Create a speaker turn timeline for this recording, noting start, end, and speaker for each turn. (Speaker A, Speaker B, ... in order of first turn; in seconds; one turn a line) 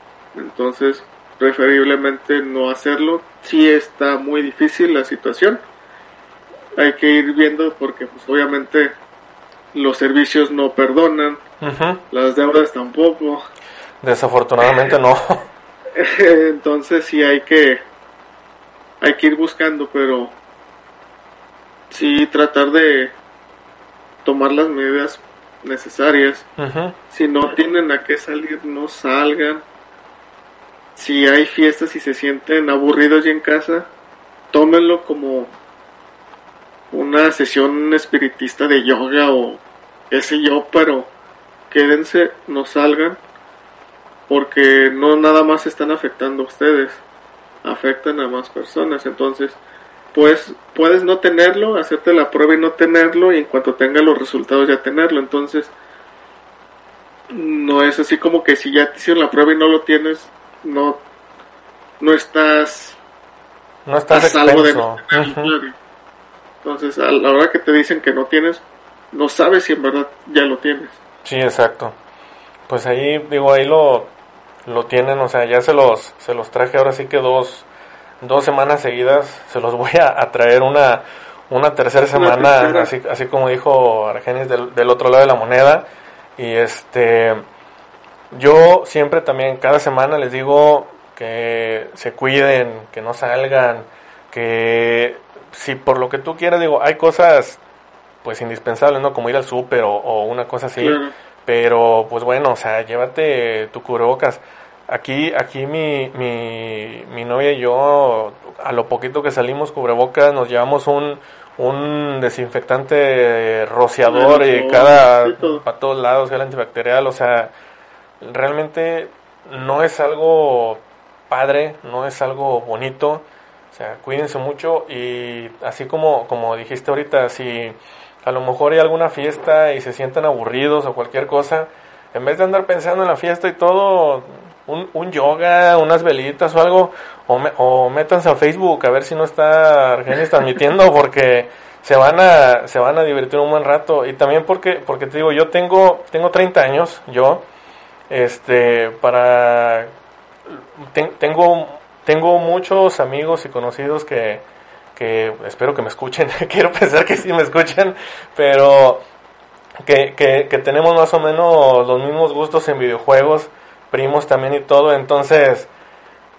Speaker A: 0.3-5.6
Speaker A: 6.8-8.9
Speaker A: 9.7-11.4
Speaker B: 11.6-12.0
Speaker A: 12.1-13.5
Speaker B: 14.0-15.4
Speaker A: 15.9-17.8
Speaker A: 19.0-20.3
Speaker A: 21.9-23.1
Speaker A: 24.2-26.5
Speaker B: 26.6-26.9
Speaker A: 27.1-29.6
Speaker A: 30.9-33.9
Speaker A: 34.5-35.5
Speaker A: 36.9-41.1
Speaker A: 41.7-43.2
Speaker A: 44.3-47.0
Speaker A: 47.6-49.6
Speaker A: 50.1-55.7
Speaker A: 57.3-61.0
Speaker A: 62.0-63.0
Speaker B: 63.9-65.5
Speaker A: 64.1-65.7
Speaker A: 66.6-71.0
Speaker B: 71.2-71.9
Speaker B: 72.7-74.1
Speaker B: 74.6-77.7
Speaker B: 78.2-85.8
Speaker A: 82.1-82.9
Speaker B: 86.4-87.4
Speaker B: 88.3-97.6
Speaker B: 98.2-117.5
Speaker A: 100.8-101.1
Speaker A: 114.0-115.6
Speaker B: 118.2-147.4
Speaker B: 148.1-149.9
Speaker B: 150.5-154.4
Speaker B: 154.9-159.0
Speaker B: 159.8-165.7